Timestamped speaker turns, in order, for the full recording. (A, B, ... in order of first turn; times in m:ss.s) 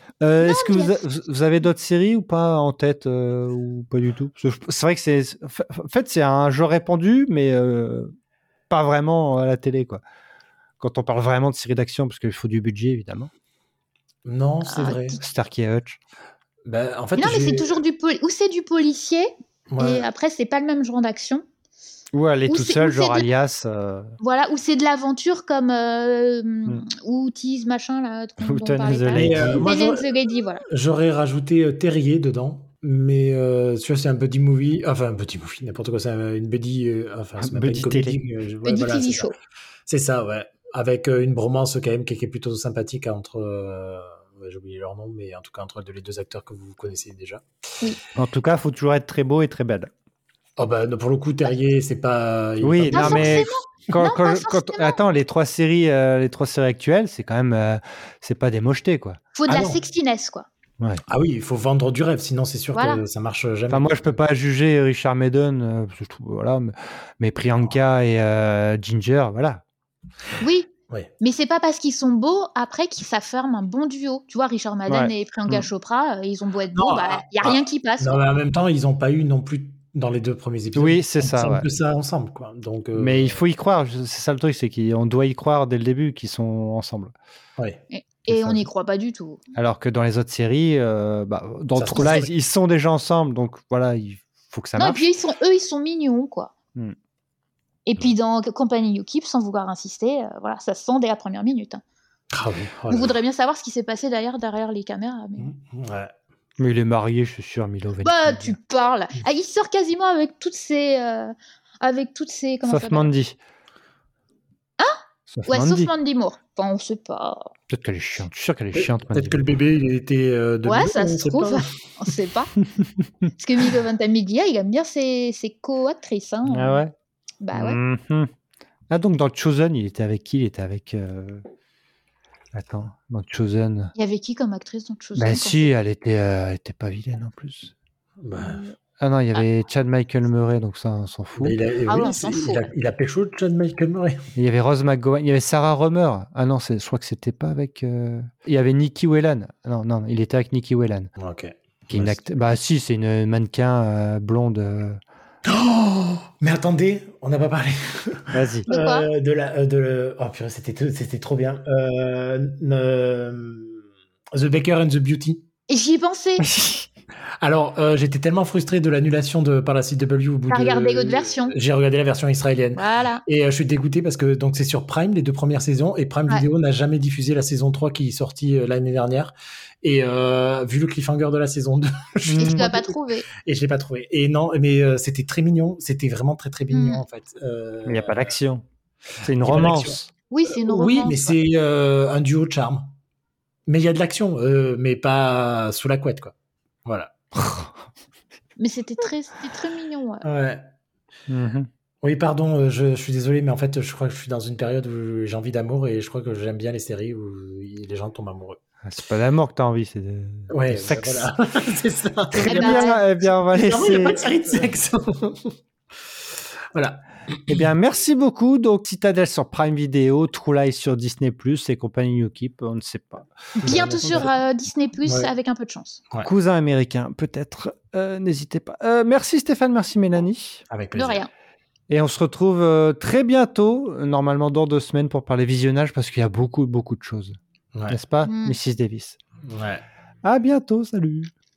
0:00.2-0:08.1 A
0:00.4-0:01.0 B
0:08.7-0:10.0 A
0:10.8-0:13.3 A
0:14.2-0:15.2 C
0:14.6-0:15.2 B
0:15.2-0:16.0 A
0:16.6-0:17.8 C
0:17.2-0:21.4 B
0:19.7-0:20.1 C
0:22.1-0:24.2 A
0:22.5-0:23.3 B
0:24.2-0:30.6 B
0:28.4-0:29.7 A
0:29.1-0:39.3 C
0:37.4-0:38.2 A
0:38.6-0:39.3 B
0:39.9-0:47.4 C
0:48.2-0:49.9 A
0:50.6-0:53.5 C
0:52.6-0:59.2 A
0:52.9-0:55.0 B
0:59.3-1:00.5 B
0:59.5-0:59.8 C
1:01.1-1:04.1 C
1:02.7-1:03.0 B
1:03.7-1:09.6 A
1:10.4-1:10.7 B
1:11.2-1:18.2 B
1:14.9-1:15.7 A
1:16.7-1:23.4 C
1:20.7-1:21.6 A
1:23.0-1:27.1 A
1:27.9-1:29.4 B
1:28.3-1:28.7 A
1:29.5-1:35.1 A
1:31.8-1:32.3 C
1:34.8-1:36.5 B
1:37.9-1:41.8 B
1:42.3-1:43.2 C
1:42.9-1:45.5 B
1:45.4-1:46.1 C
1:46.6-1:48.6 A
1:48.0-1:53.1 B
1:52.6-1:53.4 A
1:54.8-1:57.5 B
1:55.3-1:55.9 A
1:57.7-1:59.4 A
1:58.7-2:01.7 C
2:00.6-2:02.5 B
2:03.4-2:06.8 B
2:06.4-2:06.9 A
2:07.4-2:07.8 B
2:07.5-2:08.3 A
2:08.9-2:11.4 A
2:12.5-2:13.9 A
2:13.9-2:15.7 B
2:15.2-2:17.7 A
2:18.2-2:18.6 C
2:18.4-2:18.7 B
2:19.0-2:21.6 A
2:21.4-2:24.2 C
2:21.9-2:22.7 B
2:24.4-2:31.1 A
2:31.2-2:32.2 C
2:31.9-2:35.0 A
2:35.4-2:45.4 C
2:38.3-2:38.7 A
2:38.7-2:39.1 B
2:45.7-2:46.5 B
2:46.4-2:46.9 A
2:47.4-3:08.4 C
2:50.5-2:51.5 B
2:52.8-2:53.2 B
3:02.3-3:03.3 B
3:02.3-3:02.6 A
3:06.7-3:07.0 B
3:07.8-3:08.6 A
3:09.2-3:10.1 A
3:09.4-3:12.9 C
3:10.3-3:11.3 B
3:13.7-3:16.3 C
3:16.8-3:17.1 C
3:17.3-3:17.7 A
3:18.6-3:20.2 B
3:20.2-3:20.7 C
3:21.3-3:21.7 A
3:22.0-3:28.6 C
3:28.8-3:31.3 A
3:30.5-3:35.6 C
3:32.3-3:34.4 A
3:32.4-3:33.0 B
3:36.7-3:37.6 C
3:37.5-3:43.3 A
3:43.6-3:46.0 B
3:43.6-3:44.3 C
3:45.0-3:45.3 C
3:46.2-3:50.6 A
3:50.7-3:51.2 C
3:50.9-3:51.3 B
3:51.9-3:57.4 A
3:57.9-3:59.2 A
3:58.2-3:58.6 B
3:59.5-3:59.8 C
4:00.2-4:01.3 A